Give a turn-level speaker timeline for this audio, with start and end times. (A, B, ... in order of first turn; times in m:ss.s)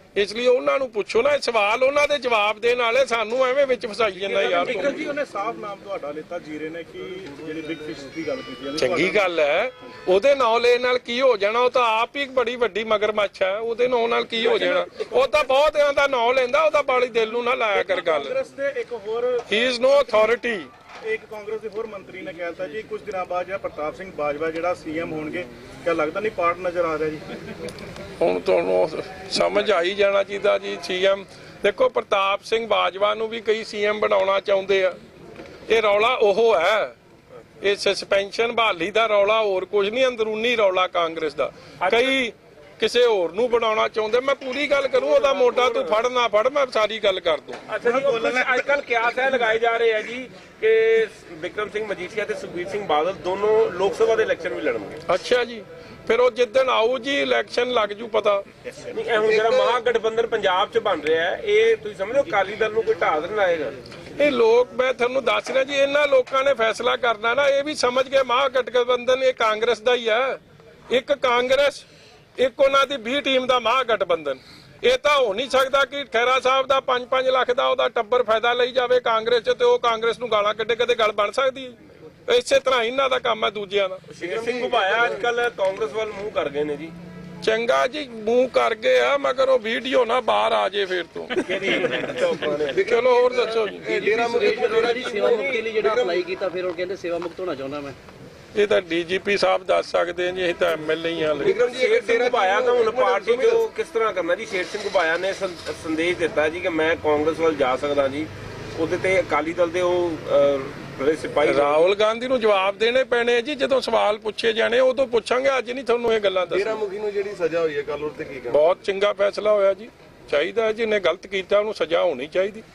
0:00.2-0:05.1 A
0:04.1-0:05.1 B
0:04.5-0:09.3 C
0:08.8-0:18.4 A
0:14.5-0:15.3 C
0:17.7-0:20.2 C
0:19.5-0:20.7 A
0:21.0-0:27.2 C
0:28.2-0:35.0 A
0:35.7-0:37.0 A
0:37.6-0:47.6 A
0:41.8-0:42.2 B
0:45.0-0:46.0 B
0:47.7-0:55.0 B
0:47.8-0:48.7 C
0:55.1-0:58.4 A
0:58.9-1:03.8 B
0:59.2-0:59.8 D
1:04.2-1:10.4 A
1:10.9-1:11.9 A
1:12.4-1:21.8 A
1:22.3-1:24.0 A
1:24.1-1:26.9 B
1:27.4-1:31.4 A
1:31.3-1:32.8 B
1:32.4-1:36.2 D
1:32.8-1:34.0 A
1:33.3-1:38.0 E
1:34.4-1:35.8 B
1:38.6-1:41.6 A
1:41.4-1:43.6 D
1:41.4-1:51.9 B
1:51.4-1:56.8 A
1:56.5-1:58.6 D
1:58.5-2:02.6 A